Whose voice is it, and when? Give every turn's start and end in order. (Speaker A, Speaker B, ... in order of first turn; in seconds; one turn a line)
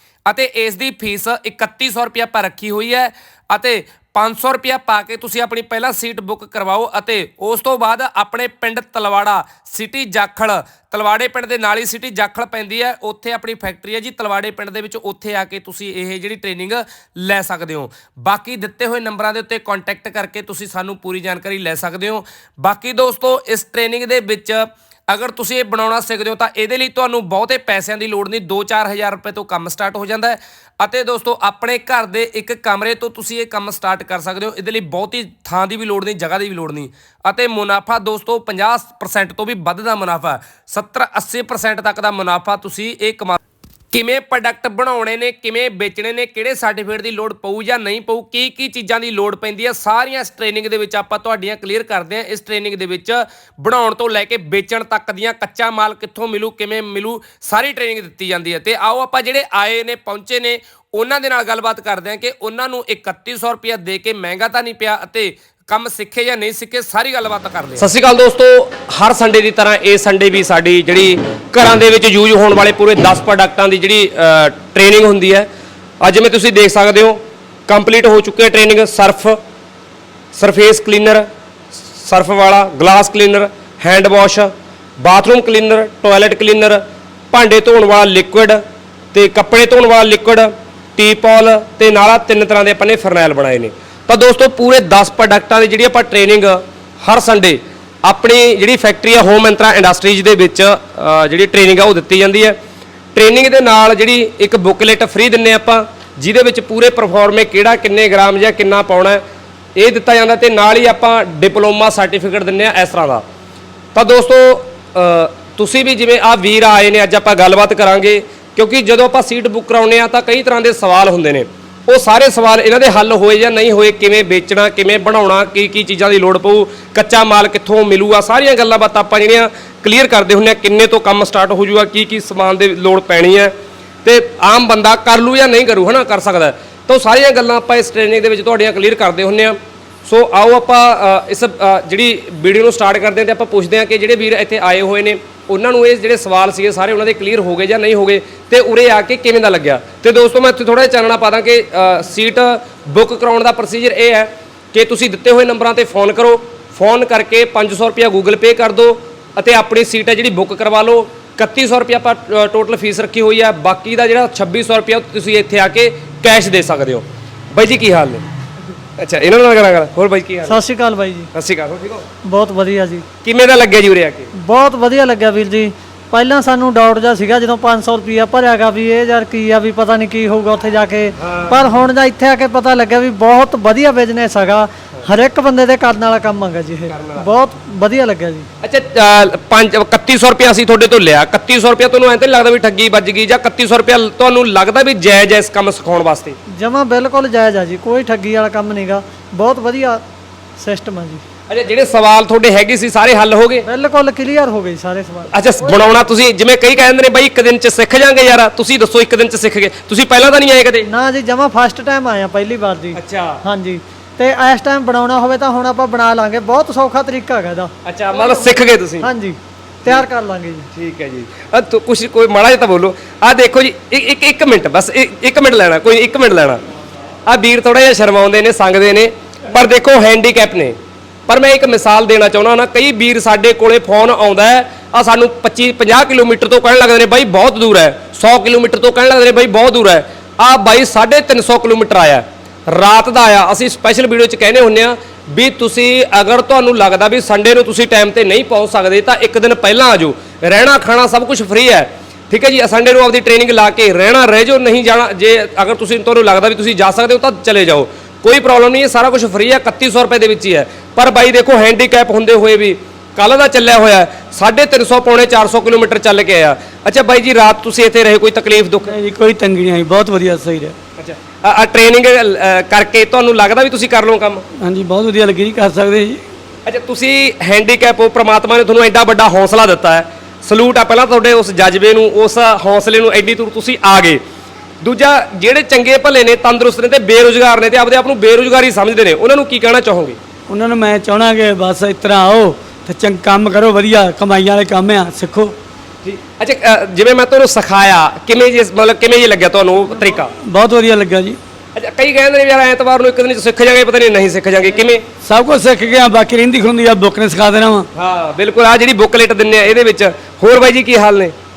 Speaker A: 0.2-43.4
Speaker A: 43.9-75.5
Speaker A: 76.0-79.4
Speaker A: 80.3-81.2
Speaker A: 81.9-86.8
Speaker A: 87.3-88.6
Speaker A: 89.1-102.6
Speaker A: 103.1-109.2
Speaker A: 109.8-113.2
Speaker A: 113.9-133.5
Speaker A: 134.0-168.2
Speaker A: 169.0-170.6
Speaker B: 170.4-171.3
Speaker A: 171.3-172.1
Speaker B: 172.2-173.0
Speaker A: 173.2-174.3
Speaker B: 174.4-188.5
Speaker A: 181.2-181.6
Speaker A: 186.9-187.3
Speaker A: 188.6-196.4
Speaker B: 196.6-200.0
Speaker B: 200.6-201.2
Speaker A: 201.5-203.6
Speaker B: 203.6-205.8
Speaker A: 205.3-210.9
Speaker B: 210.9-220.7
Speaker A: 212.9-213.4
Speaker A: 217.8-219.1
Speaker A: 220.7-226.6
Speaker A: 227.2-230.8
Speaker A: 231.3-268.9
Speaker C: 268.9-270.7
Speaker A: 271.0-274.4
Speaker C: 274.6-276.2
Speaker A: 276.6-284.2
Speaker A: 284.8-290.2
Speaker C: 290.5-295.6
Speaker A: 296.0-300.3
Speaker C: 300.4-301.4
Speaker A: 301.7-305.0
Speaker C: 305.2-307.9
Speaker A: 307.9-311.3